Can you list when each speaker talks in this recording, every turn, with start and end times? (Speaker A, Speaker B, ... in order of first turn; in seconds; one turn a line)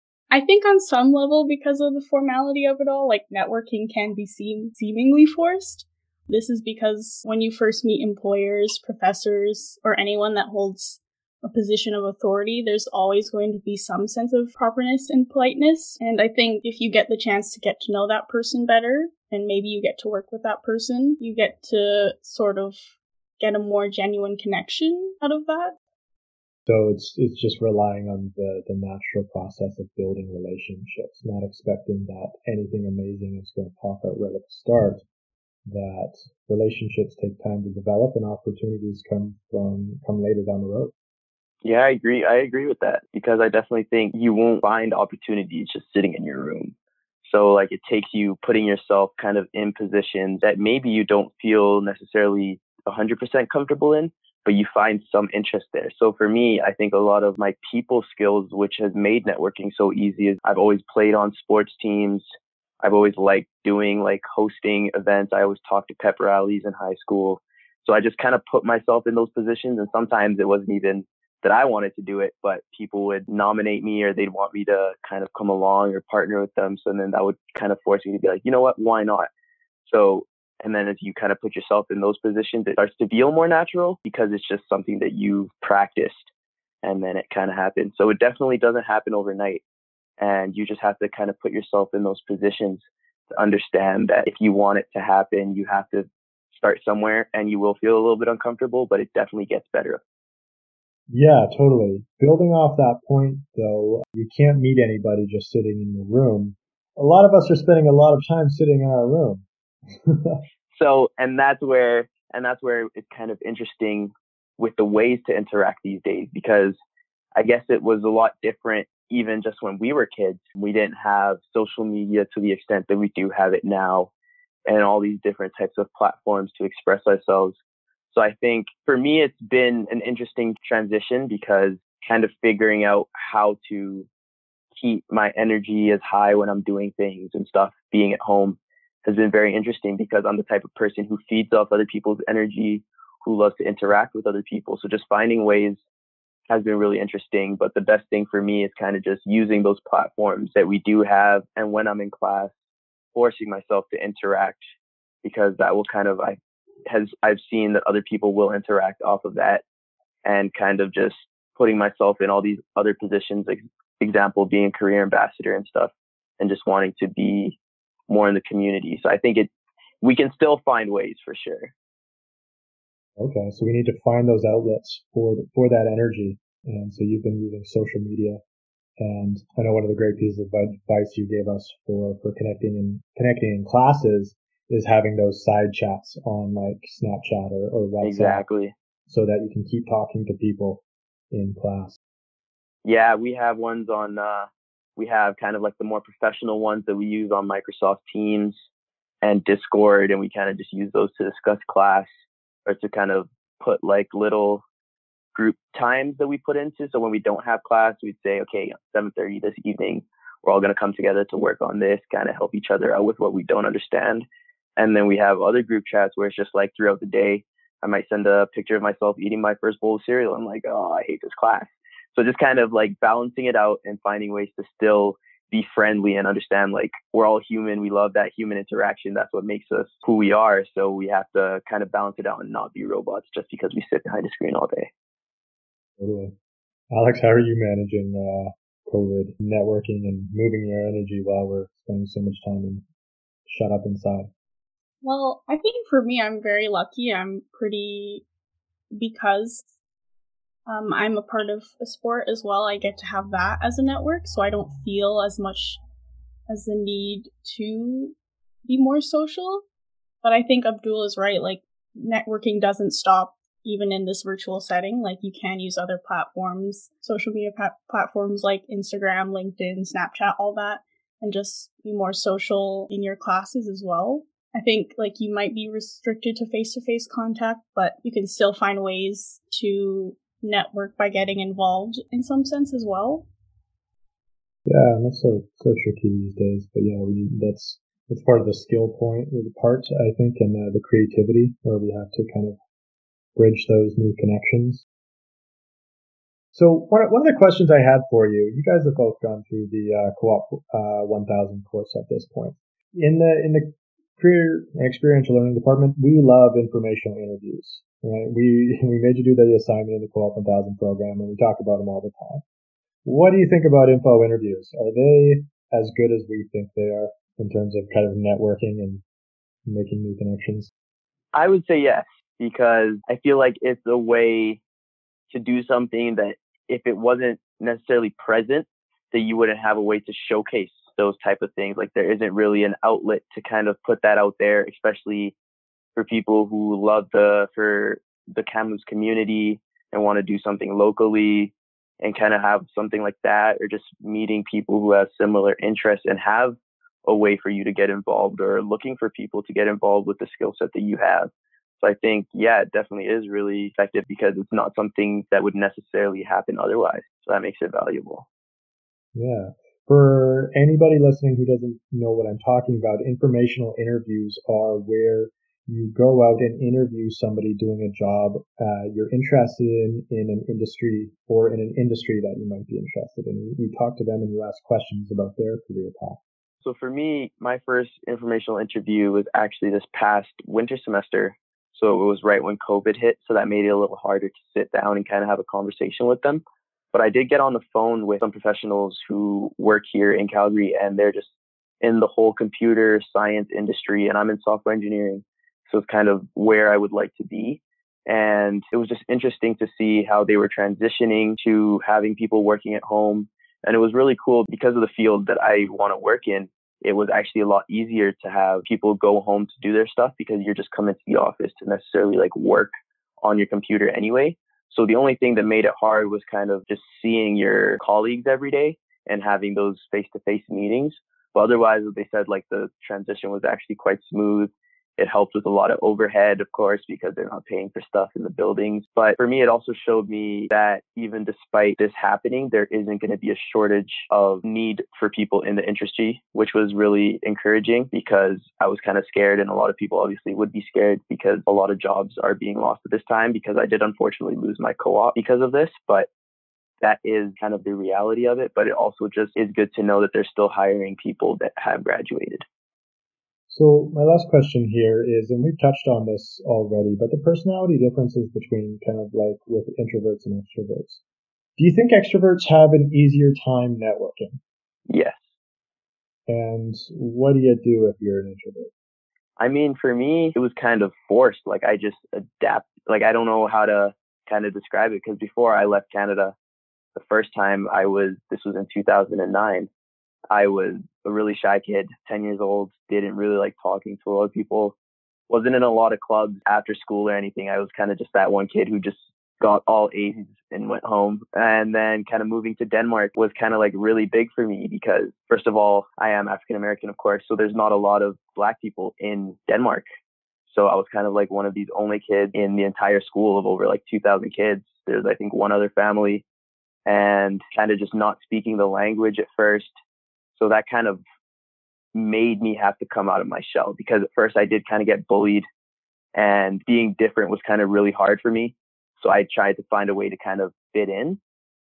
Speaker A: 0.3-25.8
Speaker B: 26.7-35.0
Speaker B: 35.7-40.9
Speaker C: 41.6-62.2
Speaker C: 62.8-79.3
Speaker C: 79.9-86.3
Speaker C: 86.8-89.6
Speaker C: 90.2-100.0
Speaker B: 101.1-110.4
Speaker C: 110.7-116.8
Speaker C: 117.4-124.1
Speaker C: 124.7-127.6
Speaker C: 128.1-134.1
Speaker C: 134.7-145.8
Speaker C: 146.5-152.5
Speaker C: 153.1-154.6
Speaker C: 155.2-159.6
Speaker C: 160.2-167.6
Speaker C: 168.1-169.5
Speaker C: 170.0-171.7
Speaker B: 173.2-178.4
Speaker B: 179.0-188.4
Speaker C: 188.0-188.7
Speaker B: 189.1-192.0
Speaker C: 192.8-198.6
Speaker C: 199.2-202.1
Speaker C: 202.7-204.6
Speaker C: 205.3-214.2
Speaker C: 214.8-234.9
Speaker B: 236.0-236.3
Speaker B: 236.9-242.8
Speaker B: 243.5-244.3
Speaker A: 245.0-248.2
Speaker A: 248.9-249.6
Speaker A: 250.7-255.8
Speaker A: 256.5-258.1
Speaker A: 258.6-259.6
Speaker A: 260.2-283.2
Speaker B: 284.6-292.6
Speaker B: 293.4-294.8
Speaker B: 296.5-312.4
Speaker B: 313.1-319.0
Speaker B: 319.6-320.7
Speaker C: 321.3-324.6
Speaker C: 325.3-335.3
Speaker C: 335.9-351.3
Speaker C: 351.8-358.2
Speaker B: 359.1-376.2
Speaker C: 376.6-391.3
Speaker C: 391.8-412.7
Speaker C: 413.2-446.1
Speaker C: 446.8-452.4
Speaker B: 453.5-461.0
Speaker B: 461.6-464.4
Speaker C: 464.9-465.2
Speaker B: 466.3-468.7
Speaker C: 469.4-476.3
Speaker C: 476.9-479.7
Speaker C: 480.3-484.8
Speaker C: 485.3-499.8
Speaker C: 500.5-506.2
Speaker C: 506.9-509.7
Speaker C: 510.4-511.0
Speaker C: 511.9-515.5
Speaker C: 516.1-521.2